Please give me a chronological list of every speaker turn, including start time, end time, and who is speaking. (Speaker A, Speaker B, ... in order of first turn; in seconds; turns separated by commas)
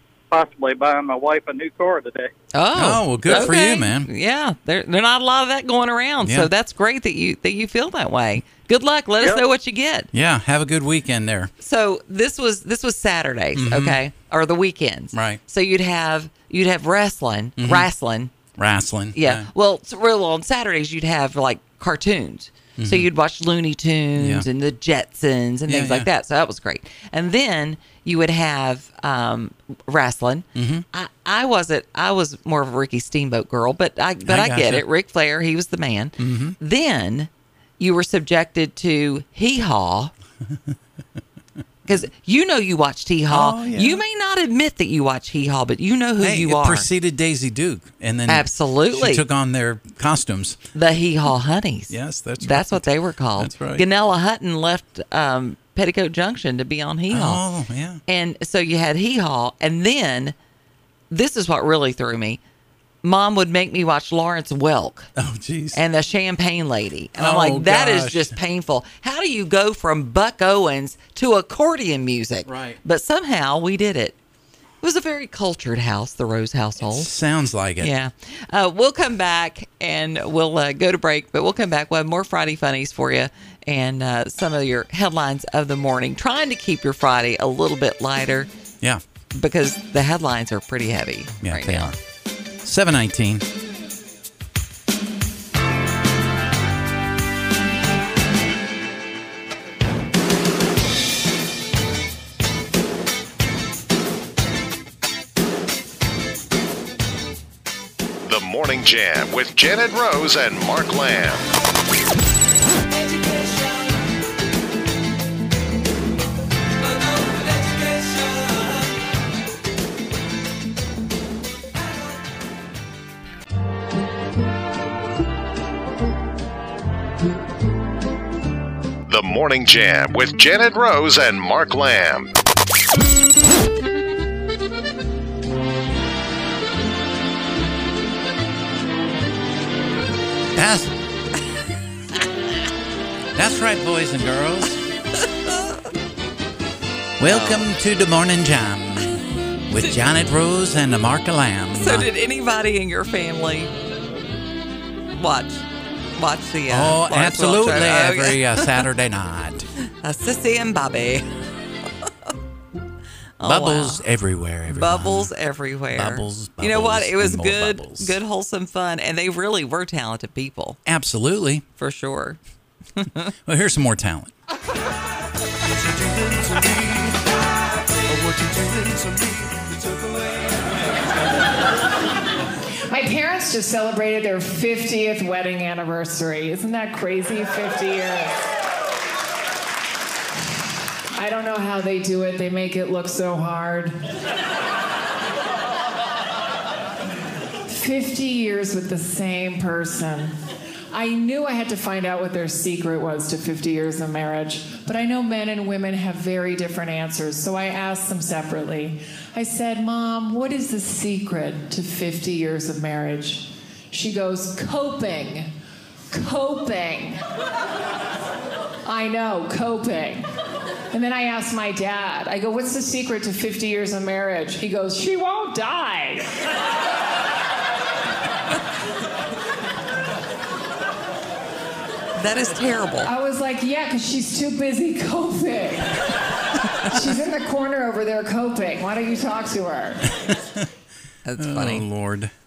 Speaker A: 0.3-2.3, Speaker B: 2.5-10.1, Speaker C: 2.7-4.1, Speaker C: 6.2-6.5, Speaker C: 10.1-11.5, Speaker B: 11.6-18.3, Speaker C: 13.5-14.0, Speaker C: 15.1-15.4, Speaker C: 17.6-17.9, Speaker C: 18.5-19.5, Speaker B: 19.1-40.1, Speaker C: 22.8-23.1, Speaker C: 24.2-24.5, Speaker C: 25.7-26.1, Speaker C: 30.5-30.8, Speaker C: 34.3-34.9, Speaker C: 36.2-36.5, Speaker B: 41.9-46.9, Speaker C: 43.3-44.0, Speaker C: 46.2-50.6, Speaker B: 48.3-49.2, Speaker B: 50.7-57.4, Speaker C: 51.9-53.9, Speaker C: 57.1-58.0, Speaker B: 58.1-60.3, Speaker B: 61.1-62.4, Speaker B: 63.0-65.1, Speaker C: 65.2-65.8, Speaker B: 65.7-74.2, Speaker C: 67.2-68.3, Speaker C: 72.5-72.8, Speaker B: 74.8-77.1, Speaker C: 76.8-77.9, Speaker B: 77.8-88.5, Speaker B: 89.3-91.9, Speaker C: 91.4-92.0, Speaker C: 92.6-93.5, Speaker D: 108.2-111.5, Speaker D: 129.1-132.3, Speaker C: 140.5-140.9, Speaker C: 143.3-144.8, Speaker B: 145.2-145.6, Speaker C: 147.2-152.1, Speaker B: 147.3-147.6, Speaker B: 151.7-153.7, Speaker B: 155.1-155.6, Speaker B: 156.2-158.8, Speaker C: 156.7-159.7, Speaker B: 160.0-161.4, Speaker B: 163.4-164.0, Speaker C: 163.4-165.3, Speaker B: 164.7-170.8, Speaker C: 165.9-168.2, Speaker C: 170.8-171.6, Speaker B: 171.8-172.4, Speaker B: 172.9-173.3, Speaker C: 173.4-174.3, Speaker C: 178.3-178.9, Speaker E: 182.9-188.3, Speaker E: 191.1-193.9, Speaker E: 197.7-200.3, Speaker E: 200.9-215.5, Speaker E: 216.1-217.2, Speaker E: 218.8-220.3, Speaker E: 220.9-226.4, Speaker B: 232.2-233.1, Speaker E: 233.0-236.2, Speaker E: 236.8-240.2, Speaker C: 240.2-240.7, Speaker B: 241.2-241.8, Speaker C: 241.4-242.3